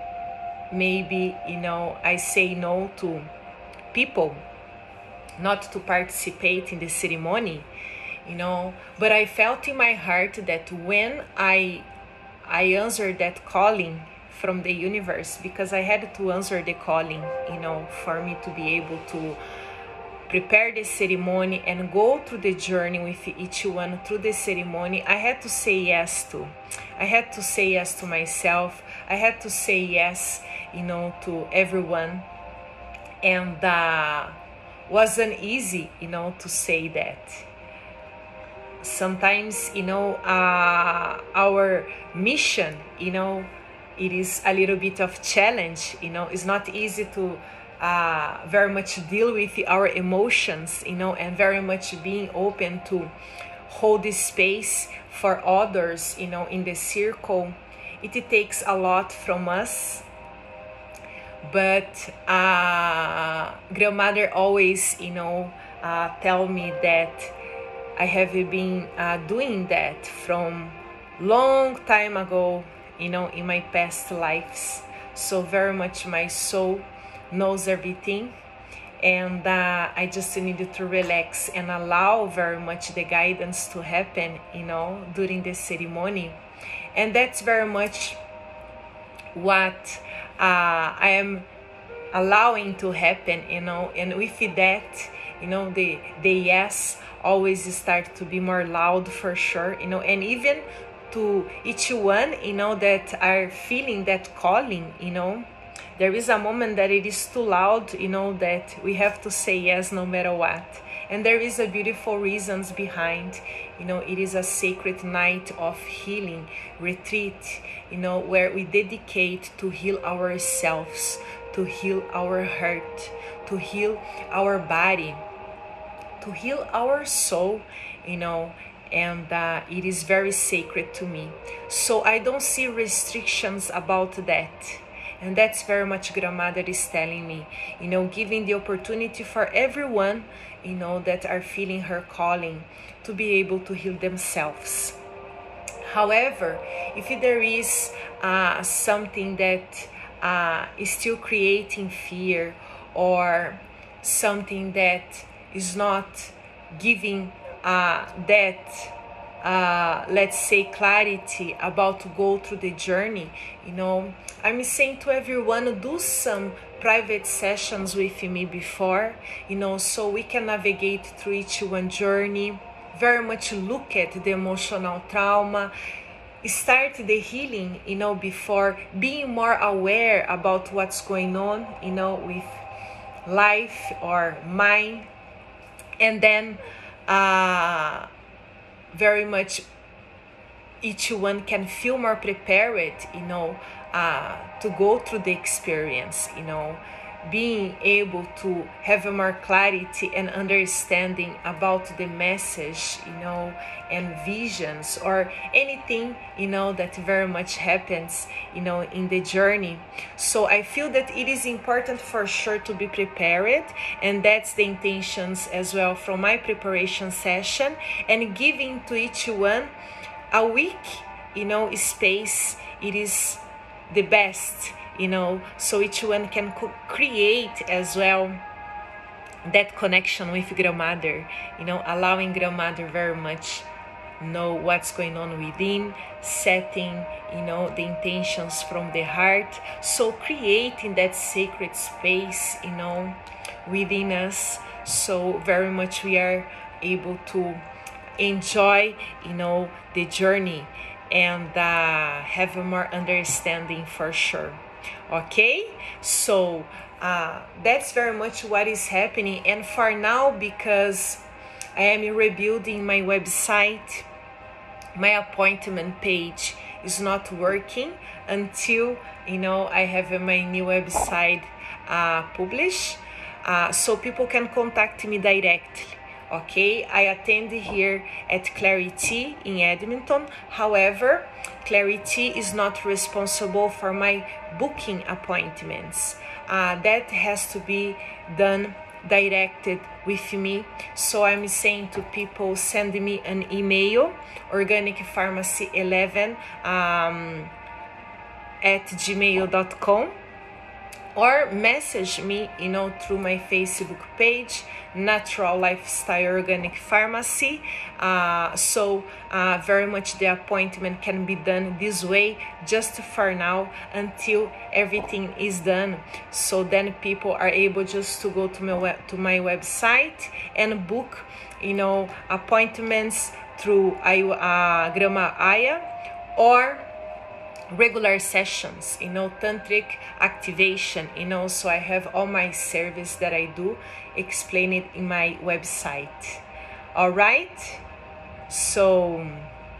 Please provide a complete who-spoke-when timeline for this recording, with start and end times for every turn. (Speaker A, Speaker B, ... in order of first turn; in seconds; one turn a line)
Speaker A: 0.7-3.3
Speaker A: 3.9-4.4
Speaker A: 5.4-7.7
Speaker A: 8.2-11.9
Speaker A: 12.4-19.4
Speaker A: 20.3-32.3
Speaker A: 33.2-37.5
Speaker A: 38.8-53.1
Speaker A: 53.7-60.0
Speaker A: 61.4-67.3
Speaker A: 68.0-78.3
Speaker A: 79.0-86.4
Speaker A: 86.9-88.2
Speaker A: 89.3-91.5
Speaker A: 92.1-125.2
Speaker A: 126.2-145.0
Speaker A: 145.8-175.7
Speaker A: 176.4-182.6
Speaker A: 183.2-185.1
Speaker A: 186.0-188.1
Speaker A: 188.9-189.6
Speaker A: 190.8-219.7
Speaker A: 220.3-228.4
Speaker A: 229.4-233.7
Speaker A: 234.2-247.6
Speaker A: 248.2-261.2
Speaker A: 261.8-264.1
Speaker A: 264.9-297.5
Speaker A: 298.6-300.1
Speaker A: 301.1-325.8
Speaker A: 326.4-326.9
Speaker A: 327.7-336.4
Speaker A: 336.9-337.8
Speaker A: 338.5-339.5